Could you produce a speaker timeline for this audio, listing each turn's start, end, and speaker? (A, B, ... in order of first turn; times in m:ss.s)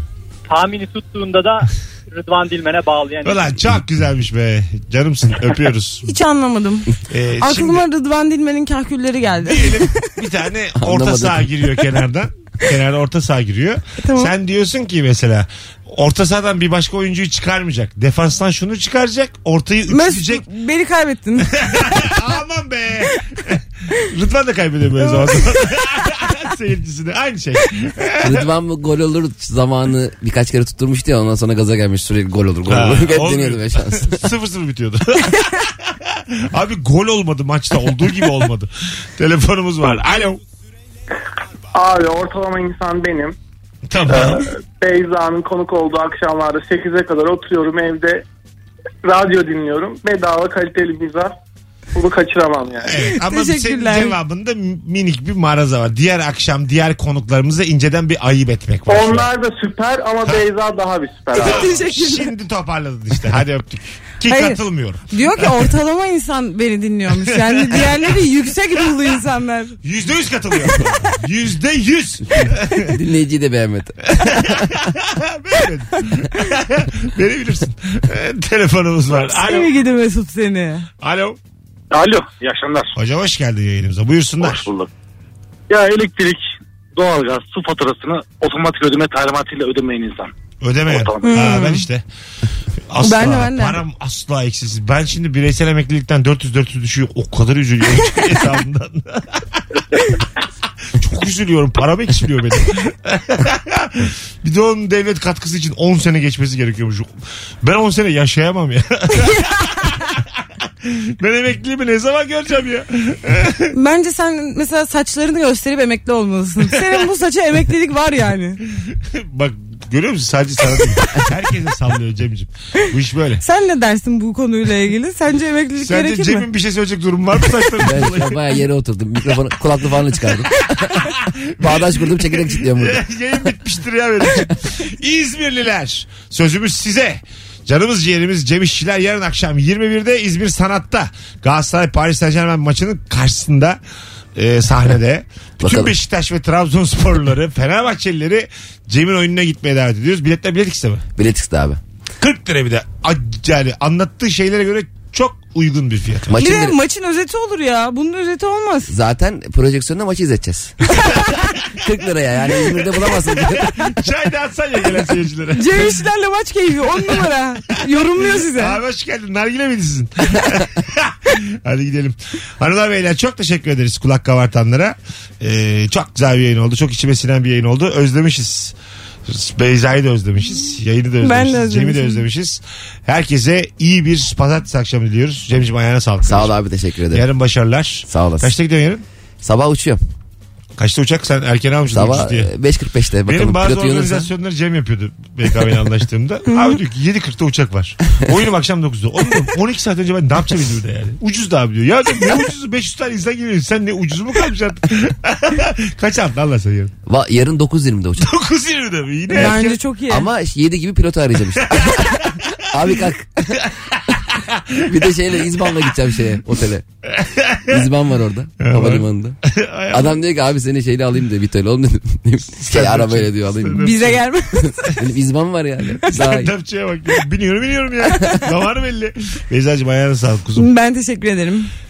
0:00.5-0:03.5 A
0:03.2-0:06.1 B
0:06.0-0:10.0 C
0:07.1-0:07.8 B
0:09.4-0:20.4 B
0:10.8-0:11.7 D
0:14.0-0:14.3 C
0:19.9-0:22.1 C
0:21.5-0:28.5 B
0:25.0-0:25.6 C
0:28.2-0:34.3 D
0:32.7-0:40.4 B
0:41.7-0:43.4 E
0:43.9-0:44.5 B
0:44.1-0:48.2 E
0:49.1-0:51.3 E
0:52.0-0:52.9 E
0:52.9-0:59.3 B
0:53.0-0:54.2 C
0:58.9-1:01.6 E
1:01.3-1:02.3 C
1:01.4-1:05.0 B
1:04.3-1:09.7 C
1:07.2-1:08.2 B
1:09.8-1:13.0 B
1:12.4-1:14.7 D
1:14.1-1:19.7 B
1:19.1-1:20.9 C
1:21.0-1:21.4 B
1:21.9-1:23.0 F
1:23.0-1:24.7 B
1:24.4-1:24.9 F
1:25.7-1:26.4 F
1:27.0-1:30.3 F
1:30.6-1:32.0 B
1:30.9-1:31.4 F
1:31.2-1:31.8 C
1:32.9-1:39.4 B
1:33.0-1:33.8 C
1:40.9-1:47.1 B
1:47.6-1:50.0 B
1:50.8-1:53.7 B
1:53.7-1:58.6 C
1:58.9-2:03.4 B
2:03.4-2:06.5 C
2:05.8-2:08.4 B
2:07.8-2:11.1 D
2:11.0-2:23.8 B
2:11.6-2:13.5 D
2:24.4-2:31.0 B
2:25.6-2:25.9 D
2:31.2-2:31.8 D
2:32.2-2:36.4 B
2:36.3-2:36.8 D
2:36.4-2:38.9 C
2:38.9-2:40.8 D
2:41.7-2:43.9 D
2:43.1-2:46.0 B
2:45.5-2:48.8 C
2:48.5-2:58.7 B
2:59.3-3:06.5 B
3:01.2-3:02.2 C
3:06.2-3:07.3 D
3:07.1-3:09.0 B
3:08.1-3:08.5 D
3:09.4-3:10.0 D
3:10.8-3:12.5 B
3:11.9-3:14.3 D
3:13.3-3:26.9 B
3:27.1-3:28.3 D
3:28.2-3:29.8 B
3:29.3-3:30.3 C
3:30.1-3:33.6 D
3:31.8-3:32.4 B
3:33.6-3:34.8 B
3:34.8-3:36.8 D
3:37.1-3:37.8 B
3:37.7-3:39.4 D
3:38.6-3:40.2 B
3:39.9-3:44.0 D
3:42.6-3:44.2 B
3:43.8-3:45.0 C
3:44.6-3:46.5 D
3:46.1-3:50.7 B
3:50.6-3:51.7 C